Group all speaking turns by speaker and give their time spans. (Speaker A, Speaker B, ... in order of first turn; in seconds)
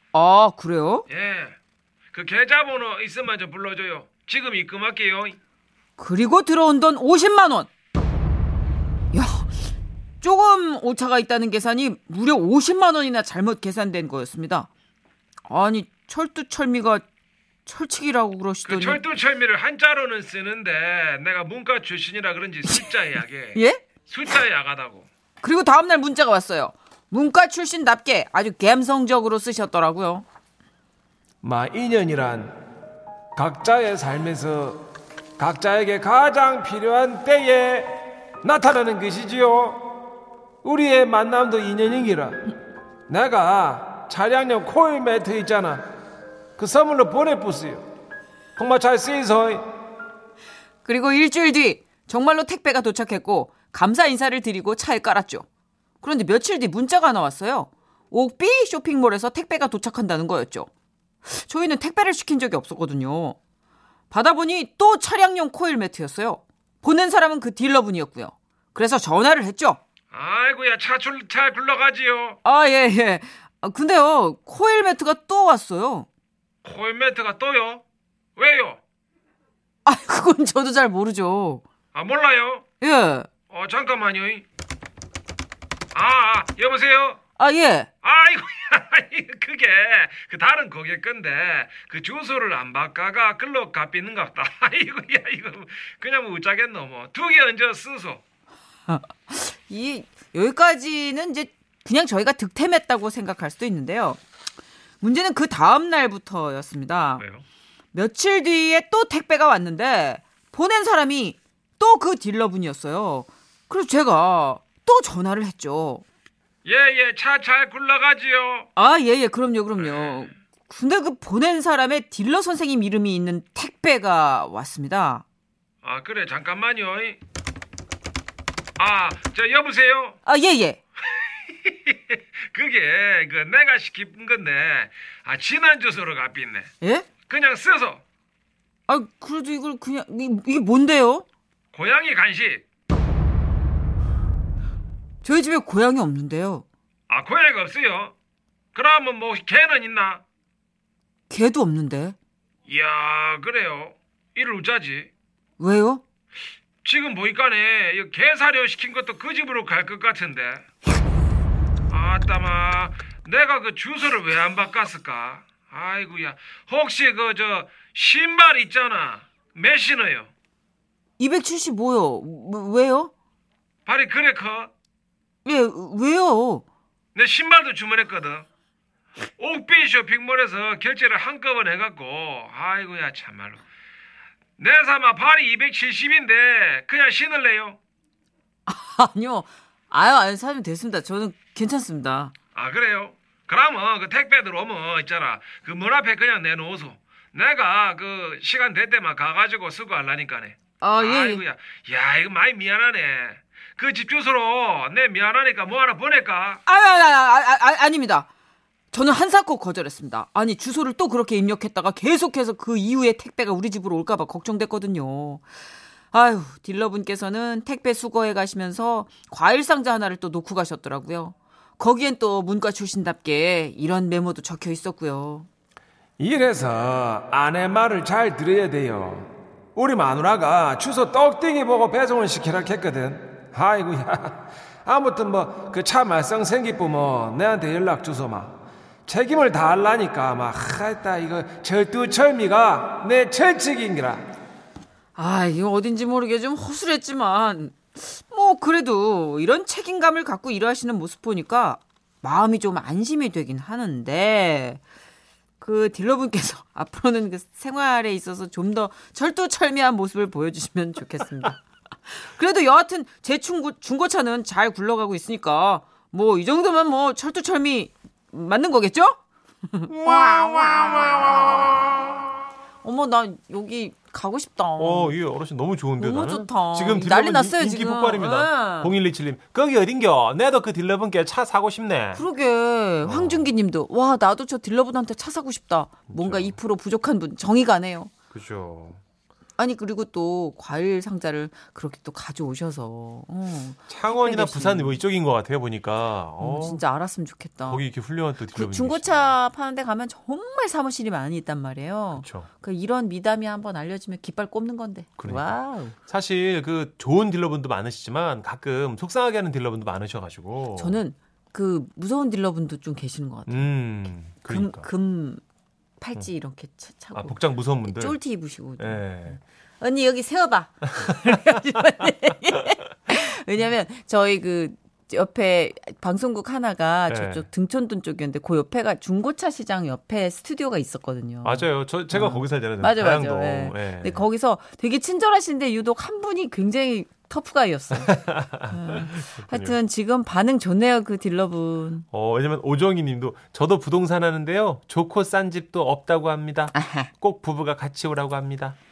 Speaker A: 0.1-1.0, 6.0-7.7, 9.1-9.6, 10.2-14.7, 15.5-17.1, 17.7-19.0, 23.6-23.8, 25.4-30.3, 50.9-55.5, 56.0-60.7, 61.2-63.4, 64.1-69.8, 72.5-76.1, 79.8-81.6, 82.8-83.3, 87.4-87.9, 98.9-104.2, 105.0-107.2, 107.9-116.0, 118.8-125.2, 130.2-130.8, 136.8-137.1, 138.9-141.3, 145.2-146.7, 151.3-152.2, 155.6-156.0, 171.2-173.1, 175.4-176.7, 188.7-192.3, 200.8-201.4, 206.7-208.3, 208.9-215.4, 216.1-225.5, 245.2-254.8, 255.6-272.0, 272.8-275.2, 276.0-278.9, 282.1-288.1, 289.6-295.0, 296.4-297.9, 298.5-306.0, 310.8-315.4, 316.0-342.1, 346.7-347.1
Speaker B: 1.1-1.6, 2.1-5.3, 18.7-23.5, 24.1-25.1, 31.4-32.5, 33.4-34.8, 35.4-37.9, 38.4-39.9, 40.6-42.4, 43.1-45.8, 46.6-47.8, 48.6-49.6, 70.1-72.4, 76.7-77.8, 78.4-78.8, 82.0-82.6, 83.5-84.4, 86.0-87.2, 88.0-98.2, 116.7-118.6, 119.8-120.2, 125.8-127.2, 128.8-130.1, 131.1-136.7, 137.3-138.0, 141.7-142.6, 147.1-148.1, 148.8-150.2, 152.7-155.1, 156.8-160.6, 161.9-170.3, 173.9-174.7, 177.2-178.4, 179.4-183.6, 184.6-187.8, 192.6-206.6, 226.2-238.5, 239.1-244.2
Speaker C: 4.2-4.7, 70.3-72.3, 77.3-77.6, 82.0-82.6, 86.5-87.0, 90.2-91.1, 97.2-98.0, 107.2-107.4, 116.7-118.6, 125.9-127.0, 128.8-130.1, 132.6-132.9, 133.6-134.6, 135.6-136.4, 137.3-138.0, 141.8-142.4, 147.1-147.9, 148.8-149.3, 154.4-154.9, 164.0-164.3, 173.9-174.5, 177.4-177.8, 199.2-200.5, 205.5-206.5, 274.8-282.2, 283.1-283.5, 286.1-286.6, 288.3-289.0, 293.9-296.8, 297.7-299.4, 302.1-302.5, 305.2-311.0, 313.5-314.9, 317.2-318.2, 318.8-319.4, 327.1-327.5, 331.4-334.2, 338.1-339.8, 342.1-348.8